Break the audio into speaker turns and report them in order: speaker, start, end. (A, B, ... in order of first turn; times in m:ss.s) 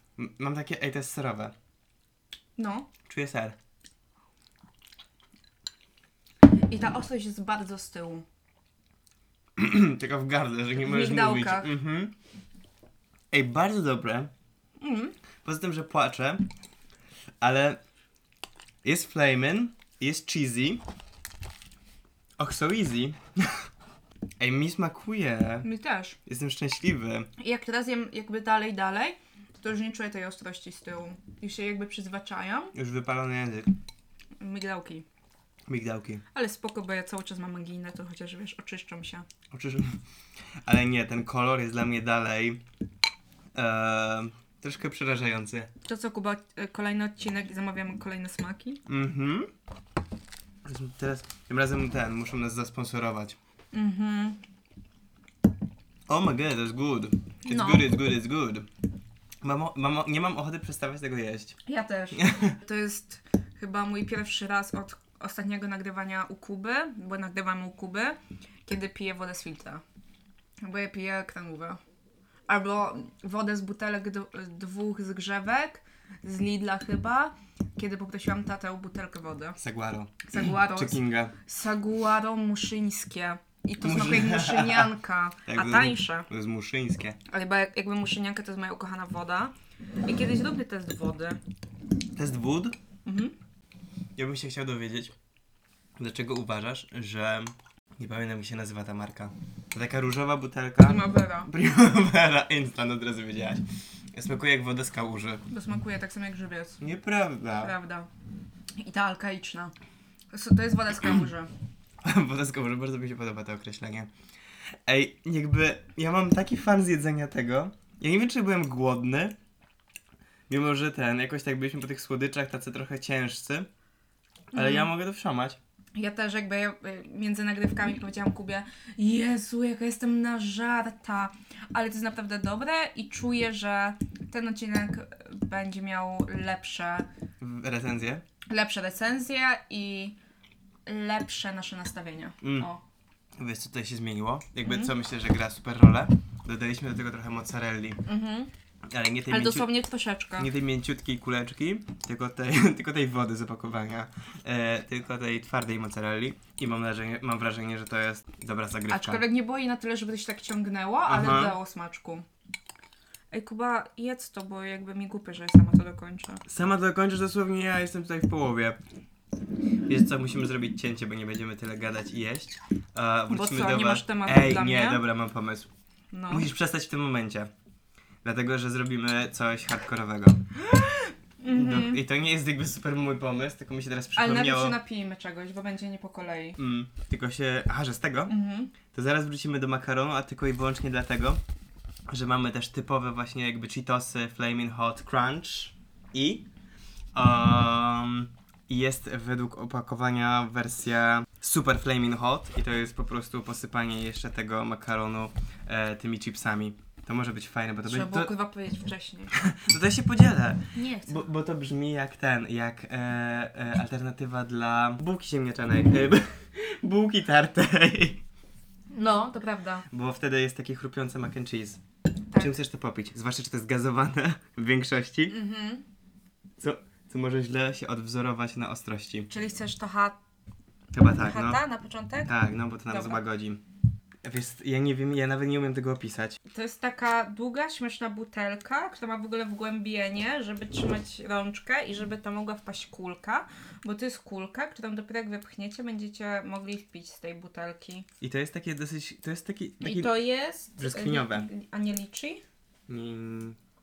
0:00.2-0:01.5 A
0:02.6-0:02.9 B
0:03.0-0:03.6 A
0:06.6-0:08.2 B
0:09.6-0:12.1 A
0:10.8-0:11.7 B
0:13.3-0:14.3 A
0:14.8-0:15.1 B
0:15.4-0:16.4 A
0:17.4-0:17.8 A
0:18.8-0:20.8 A
0:22.4-0:23.6 A
0:24.4-0:25.7 A
0:25.6-0:26.2 B
0:26.2-0:27.3 A
0:27.4-0:32.7 B
0:32.7-0:33.7 A
0:34.4-0:35.0 B
0:35.7-0:36.2 A
0:36.3-0:39.2 B
0:39.5-0:40.0 A
0:40.6-0:42.6 A
0:43.5-0:45.7 A
0:45.8-0:48.8 B
0:48.9-0:49.5 A
0:50.6-0:53.4 A
0:53.7-0:54.4 B
0:56.1-0:58.7 A
0:57.4-0:57.9 B
0:59.4-1:01.6 A
1:01.6-1:09.8 B
1:02.1-1:02.6 A
1:10.6-1:11.8 B
1:12.5-1:19.6 B
1:19.6-1:21.3 A
1:20.2-1:26.3 B
1:23.8-1:24.9 A
1:25.4-1:27.2 A
1:27.3-1:29.5 B
1:30.0-1:31.4 B
1:32.1-1:32.8 A
1:33.0-1:33.3 B
1:34.2-1:35.1 A
1:36.0-1:45.4 A
1:40.8-1:41.5 B
1:45.5-1:46.8 B
1:46.8-1:47.7 A
1:47.6-1:48.1 B
1:48.8-1:49.7 B
1:50.3-1:51.5 B
1:52.0-1:54.1 A
1:54.9-1:59.3 A
2:00.5-2:03.7 A
2:04.5-2:04.9 B
2:04.5-2:05.6 A
2:05.9-2:17.1 B
2:17.4-2:18.2 A
2:18.5-2:20.2 B
2:20.8-2:22.8 B
2:22.4-2:22.7 A
2:23.4-2:28.0 A
2:24.6-2:24.9 B
2:28.0-2:28.5 B
2:28.9-2:29.7 A
2:29.3-2:30.5 B
2:30.4-2:39.2 A
2:38.9-2:42.2 B
2:41.1-2:41.6 A
2:43.3-2:46.4 B
2:46.5-2:48.8 A
2:49.8-2:55.7 A
2:53.3-2:55.0 B
2:56.1-2:56.5 B
2:56.3-2:57.5 A
2:58.2-3:00.4 A
3:00.7-3:02.0 B
3:01.5-3:04.8 A
3:04.1-3:06.6 B
3:06.6-3:08.3 A
3:08.3-3:08.7 B
3:08.9-3:11.4 A
3:12.1-3:16.5 A
3:17.1-3:28.3 A
3:27.8-3:29.3 B
3:29.3-3:38.2 A
3:30.7-3:31.3 B
3:38.9-3:39.9 B
3:39.9-3:41.8 A
3:42.4-3:45.3 A
3:45.3-3:45.8 B
3:46.6-3:49.3 A
3:49.3-3:50.2 B
3:50.9-3:51.6 A
3:51.1-3:52.3 B
3:52.2-3:53.6 A
3:52.8-3:53.2 B
3:54.2-3:56.4 A
3:56.5-4:08.1 B
4:08.2-4:10.2 A
4:09.8-4:12.4 B
4:10.8-4:11.5 A
4:12.9-4:13.6 A